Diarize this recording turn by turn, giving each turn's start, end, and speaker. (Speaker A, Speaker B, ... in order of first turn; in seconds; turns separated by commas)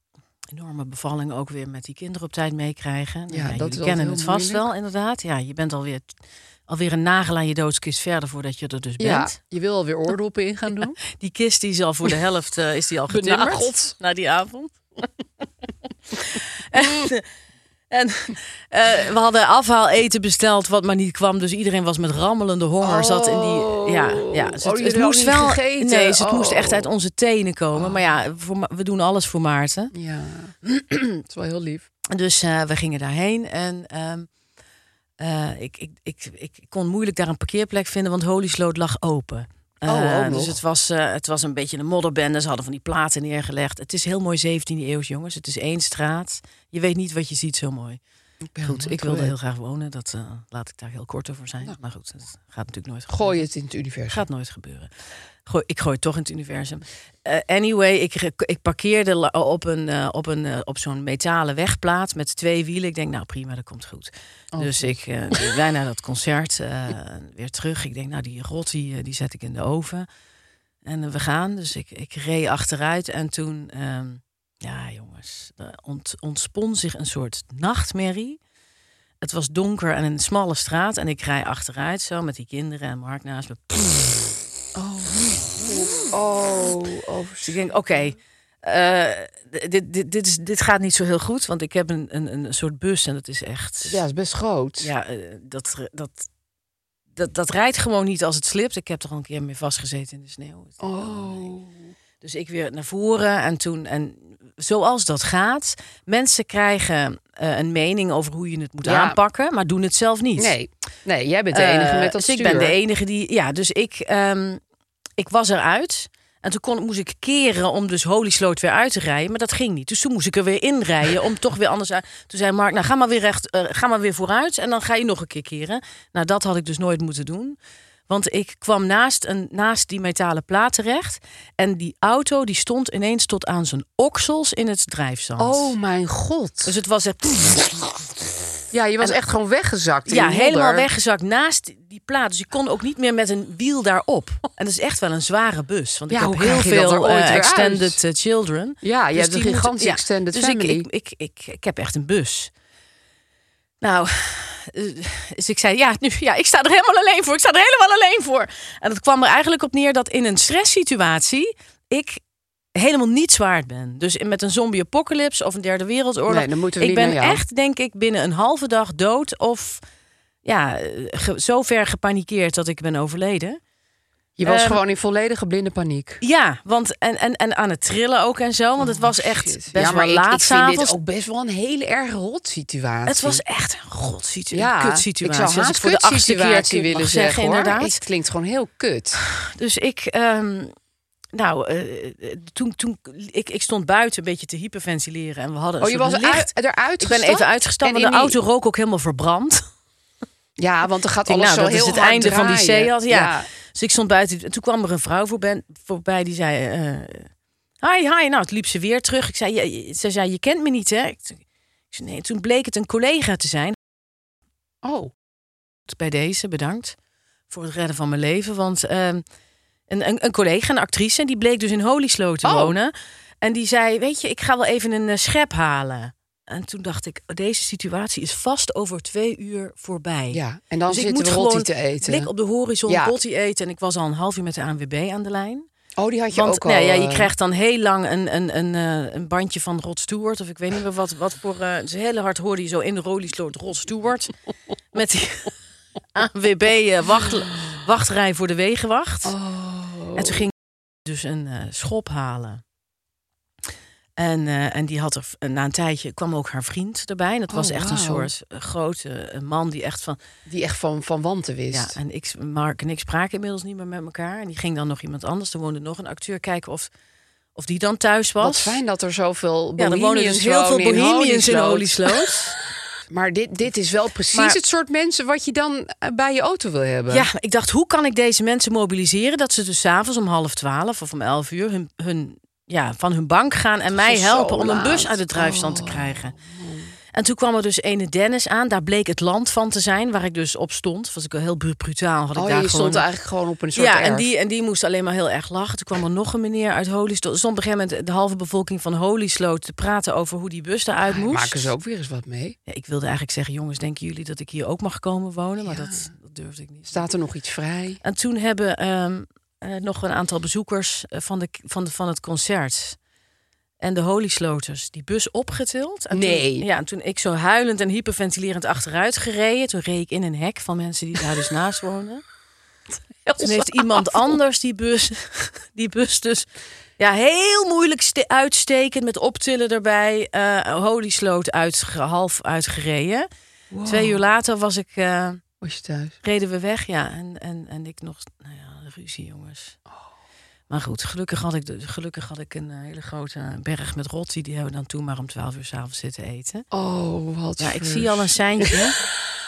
Speaker A: 0.5-6.1, Speaker B: 3.3-4.7, Speaker A: 6.7-9.3, Speaker B: 9.0-11.0, Speaker A: 11.1-15.0, Speaker B: 13.1-13.9, Speaker A: 16.1-17.2, Speaker B: 16.8-17.0, Speaker A: 17.9-29.9, Speaker B: 22.8-26.9, Speaker B: 29.9-30.5, Speaker A: 30.7-31.1, Speaker B: 31.2-31.9, Speaker A: 32.1-34.3, Speaker A: 35.2-48.0, Speaker B: 39.9-40.6, Speaker B: 48.5-49.3, Speaker A: 48.6-53.5, Speaker B: 53.1-54.2, Speaker A: 54.1-54.9, Speaker A: 55.4-70.1, Speaker B: 64.5-65.4, Speaker A: 70.8-78.4, Speaker A: 79.2-84.3, Speaker B: 84.7-87.6, Speaker A: 87.4-94.0, Speaker B: 93.8-94.9, Speaker A: 94.8-96.3, Speaker A: 97.2-101.5, Speaker B: 100.8-101.8, Speaker A: 102.2-110.5, Speaker B: 108.8-109.2, Speaker B: 110.4-112.8, Speaker A: 111.5-114.6, Speaker A: 115.2-127.6, Speaker A: 128.1-135.7, Speaker B: 135.4-136.7, Speaker A: 136.6-138.1, Speaker B: 138.7-140.9, Speaker A: 140.1-152.5, Speaker B: 146.1-148.0, Speaker B: 148.8-150.9, Speaker A: 153.8-162.2, Speaker A: 162.7-169.8, Speaker B: 166.3-167.4, Speaker A: 170.4-173.6, Speaker B: 174.4-176.2, Speaker A: 174.4-174.8, Speaker A: 176.2-180.9, Speaker B: 178.8-183.4, Speaker A: 183.1-188.0, Speaker B: 184.5-189.2, Speaker A: 189.2-190.7, Speaker A: 191.3-199.7, Speaker B: 195.8-198.4, Speaker B: 200.6-203.5, Speaker A: 201.3-207.3, Speaker A: 207.8-213.8, Speaker B: 214.8-215.1, Speaker A: 215.9-216.9, Speaker A: 217.5-219.2, Speaker A: 219.9-235.7, Speaker B: 222.4-222.8, Speaker B: 230.3-232.3, Speaker B: 232.8-233.2, Speaker B: 236.0-237.3, Speaker A: 236.3-244.3, Speaker A: 244.9-245.5, Speaker A: 246.1-249.3, Speaker B: 249.2-250.5, Speaker A: 250.2-250.5, Speaker A: 251.0-252.6, Speaker A: 254.2-260.2, Speaker B: 257.5-258.3, Speaker B: 260.4-262.0, Speaker A: 261.7-266.9, Speaker A: 267.5-268.8, Speaker B: 268.4-272.3, Speaker A: 269.8-272.6, Speaker B: 273.1-277.3, Speaker A: 277.1-286.4, Speaker B: 283.9-286.9, Speaker A: 287.1-293.0, Speaker B: 292.3-294.3, Speaker A: 293.7-301.7, Speaker B: 301.1-302.6, Speaker A: 302.7-307.0, Speaker B: 305.6-306.1, Speaker B: 306.9-308.0, Speaker A: 308.0-313.0, Speaker A: 313.8-322.2, Speaker B: 316.1-316.7, Speaker B: 323.2-324.4, Speaker A: 323.4-326.5, Speaker A: 327.0-333.3, Speaker B: 333.7-334.2, Speaker A: 333.9-335.4, Speaker B: 335.6-336.1, Speaker A: 336.2-339.8, Speaker A: 340.7-346.7, Speaker B: 346.7-348.9, Speaker A: 347.6-349.0